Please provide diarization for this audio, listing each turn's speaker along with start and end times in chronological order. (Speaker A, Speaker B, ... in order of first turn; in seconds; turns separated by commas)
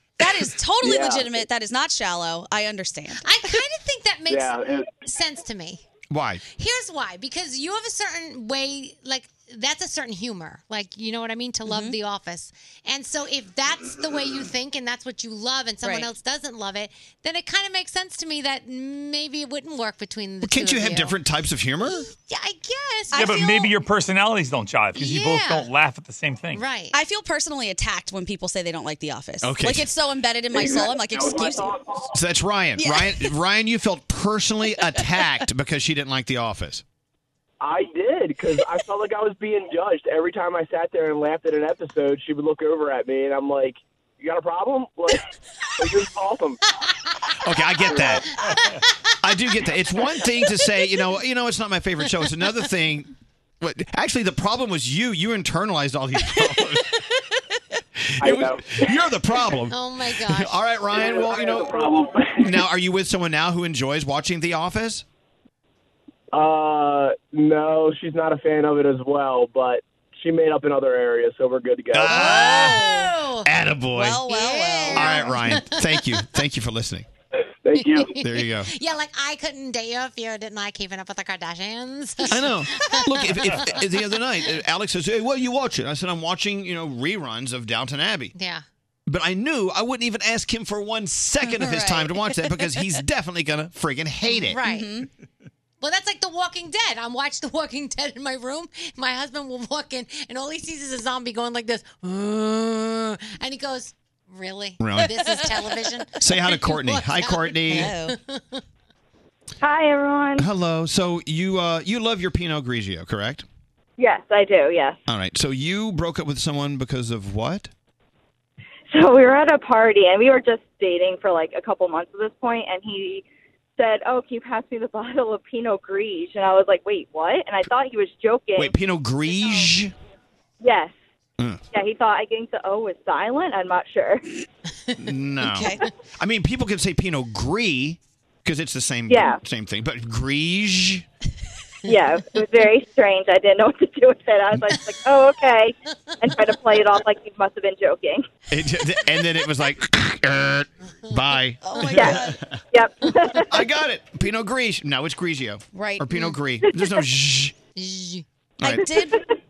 Speaker A: 0.2-3.5, Speaker B: 3.2-5.8, Speaker C: 4.3-4.8, Speaker D: 6.1-6.4, Speaker B: 6.6-21.2, Speaker A: 11.7-12.0, Speaker A: 15.8-16.1, Speaker D: 20.4-22.1, Speaker B: 21.9-23.7, Speaker E: 23.1-26.6, Speaker B: 25.0-25.7, Speaker B: 26.5-27.0, Speaker A: 26.9-31.8, Speaker D: 29.4-29.9, Speaker C: 31.2-31.6, Speaker D: 32.1-36.8, Speaker A: 32.8-33.3, Speaker A: 34.8-35.1, Speaker C: 37.6-45.2, Speaker C: 45.8-46.5, Speaker D: 47.4-48.3, Speaker B: 47.8-49.1, Speaker D: 49.2-57.0, Speaker D: 58.1-65.0, Speaker C: 58.2-58.6, Speaker B: 59.7-61.0, Speaker C: 61.0-62.6, Speaker C: 66.3-72.3, Speaker D: 71.9-72.9, Speaker A: 72.0-73.1, Speaker B: 72.2-73.5, Speaker D: 73.5-74.2, Speaker A: 73.9-75.3, Speaker B: 74.3-76.2, Speaker D: 74.9-77.1, Speaker C: 77.7-78.1, Speaker B: 77.7-83.8, Speaker D: 78.2-78.7, Speaker D: 82.3-88.3, Speaker B: 88.4-88.6, Speaker D: 89.1-94.6, Speaker A: 91.4-92.9, Speaker B: 94.3-94.9, Speaker A: 94.6-95.1, Speaker B: 95.8-108.6, Speaker D: 104.8-105.4, Speaker D: 106.2-107.9, Speaker A: 107.7-108.2, Speaker F: 109.6-110.5, Speaker D: 110.4-113.5, Speaker F: 114.0-115.0, Speaker D: 115.1-117.7, Speaker F: 118.9-123.3, Speaker F: 123.8-128.8, Speaker D: 128.6-129.9, Speaker F: 129.4-129.7, Speaker F: 130.6-130.9, Speaker F: 131.7-134.2, Speaker D: 135.0-141.1, Speaker A: 135.4-135.8, Speaker F: 139.1-139.4, Speaker F: 141.9-148.2, Speaker B: 144.7-145.0, Speaker D: 148.5-152.6, Speaker A: 151.7-152.4, Speaker B: 151.7-152.1, Speaker F: 152.7-153.6, Speaker D: 153.5-157.5, Speaker A: 155.7-156.3, Speaker B: 157.8-158.2, Speaker D: 158.6-158.9, Speaker A: 158.6-159.2